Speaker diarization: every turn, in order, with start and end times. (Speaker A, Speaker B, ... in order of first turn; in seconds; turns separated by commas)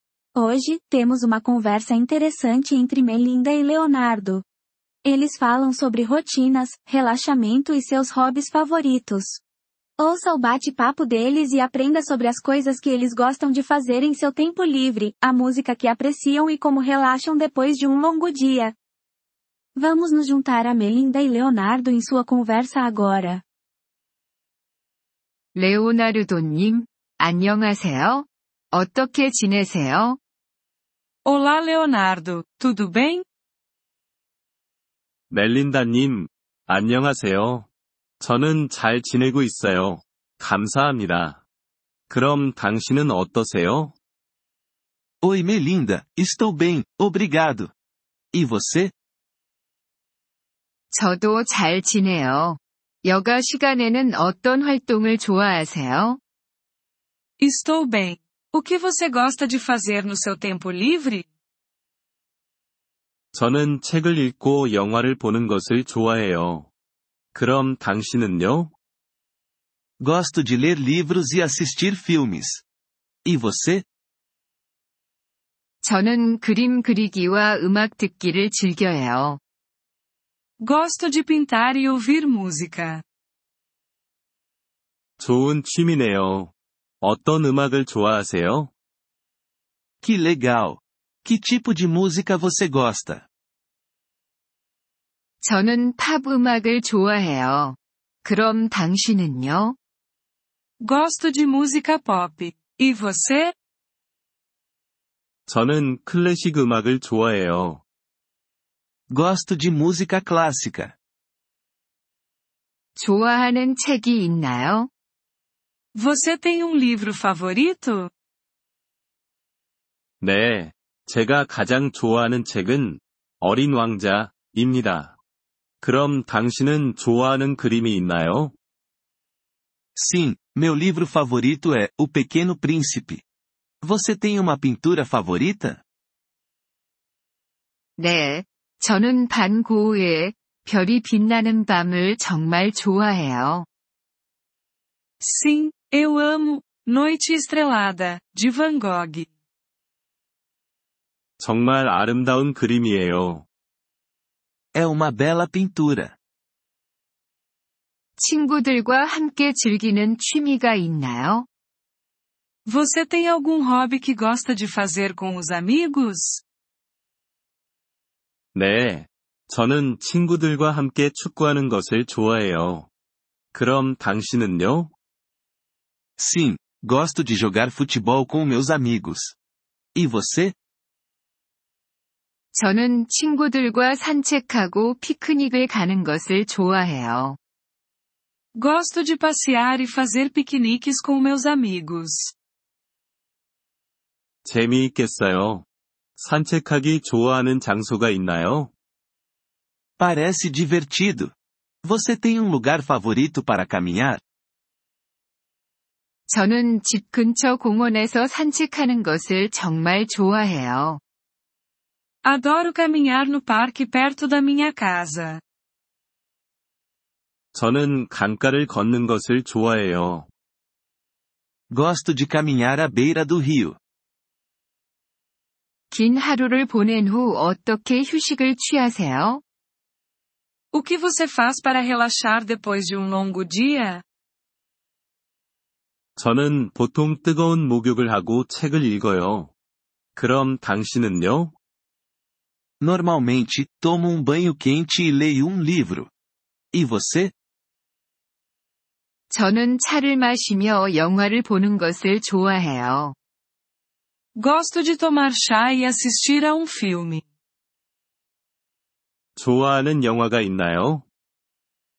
Speaker A: 0.3-4.4, Speaker A: 5.0-9.4, Speaker A: 10.0-18.7, Speaker A: 19.7-23.4, Speaker B: 25.5-30.2, Speaker C: 31.2-33.2, Speaker D: 35.3-37.7, Speaker D: 38.2-41.4, Speaker D: 42.1-43.9, Speaker E: 45.2-47.7, Speaker E: 48.3-48.9, Speaker B: 50.9-56.2, Speaker C: 57.4-61.2, Speaker D: 63.3-66.7, Speaker D: 67.3-68.7, Speaker E: 70.0-72.6, Speaker E: 73.2-73.8, Speaker B: 75.8-79.4, Speaker C: 80.6-83.0, Speaker D: 85.2-88.7, Speaker E: 90.0-93.3, Speaker B: 95.4-99.8, Speaker C: 100.8-103.5, Speaker D: 105.5-107.8, Speaker E: 109.1-110.9, Speaker B: 113.0-114.9, Speaker C: 115.9-118.1, Speaker D: 120.2-125.2, Speaker D: 125.8-128.5, Speaker E: 129.9-133.2, Speaker E: 133.8-135.8, Speaker B: 138.0-143.7, Speaker C: 145.2-149.3, Speaker D: 151.4-153.4, Speaker E: 154.7-156.1, Speaker B: 158.2-161.5, Speaker C: 162.7-166.4, Speaker D: 168.5-172.9, Speaker D: 173.5-174.9, Speaker E: 176.2-179.3, Speaker E: 179.9-180.5, Speaker B: 182.5-187.4, Speaker C: 188.5-192.3, Speaker D: 194.4-195.7, Speaker D: 196.2-198.7, Speaker E: 200.0-204.2, Speaker B: 206.3-211.0, Speaker C: 212.2-215.4, Speaker D: 217.5-220.3, Speaker E: 221.7-223.8, Speaker B: 225.9-229.4, Speaker C: 230.7-234.0, Speaker D: 236.2-239.5, Speaker D: 240.1-241.5, Speaker E: 242.8-246.1, Speaker E: 246.7-247.3, Speaker B: 249.3-253.2, Speaker C: 254.3-257.2, Speaker D: 259.4-261.0